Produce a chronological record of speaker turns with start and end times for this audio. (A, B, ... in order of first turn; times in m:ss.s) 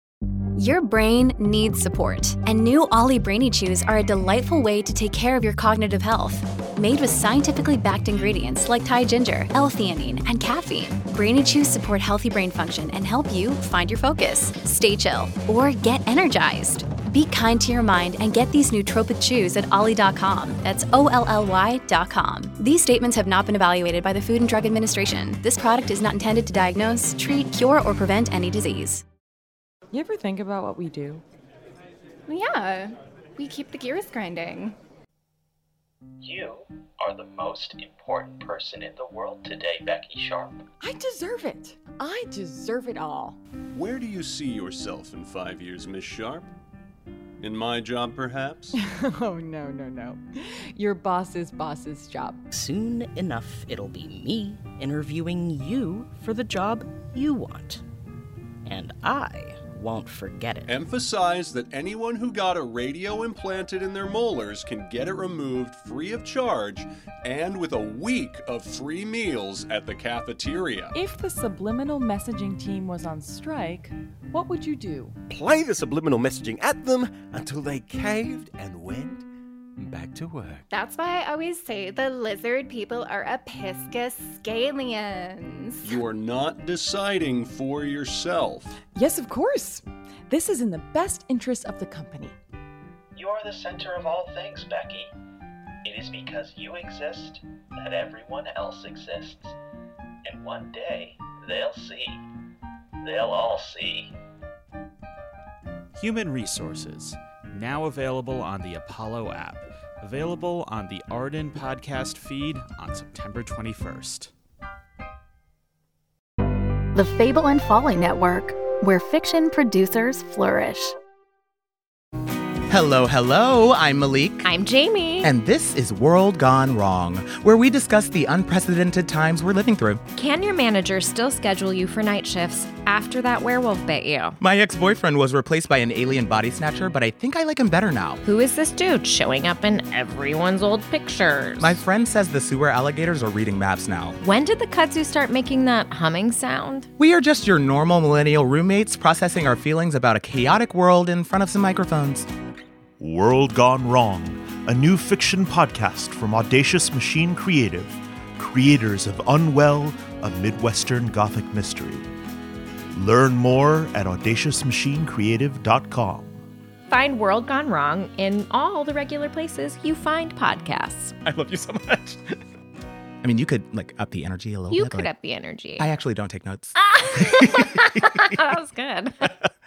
0:00.6-0:29.0 A
0:01.6-0:06.2 B
0:06.8-0:09.0 B
0:25.0-0:27.2 B
0:28.1-0:29.0 B
0:29.9-0:31.2 C
0:32.3-0:34.8 D
0:36.2-0:40.6 E
0:40.8-0:43.4 C
0:43.7-0:46.5 F
0:47.4-0:48.8 F
0:48.9-0:52.4 C
0:52.5-0:57.8 G
0:58.6-1:00.8 G
1:00.7-1:11.0 F
1:10.9-1:15.2 C
1:15.3-1:19.2 H
1:19.8-1:20.6 H
1:20.7-1:25.9 D
1:25.8-1:28.8 F
1:28.8-1:32.4 C
1:33.2-1:35.1 E
1:35.9-1:39.6 E
1:40.3-1:42.2 E
1:43.1-1:44.1 E
1:46.0-1:54.3 I
1:56.9-2:01.0 B
2:02.7-2:04.5 J
2:04.4-2:05.3 K
2:05.2-2:10.0 J
2:10.2-2:14.4 K
2:14.4-2:18.2 J
2:18.2-2:21.8 K
2:21.6-2:24.2 J
2:24.2-2:26.9 K
2:27.0-2:32.3 J
2:33.0-2:42.1 L
2:42.9-2:46.4 L
2:46.9-2:51.2 K
2:51.2-2:52.4 J
2:53.2-2:55.1 J
2:54.7-2:55.9 K
2:55.8-2:58.0 J
2:56.8-2:59.4 K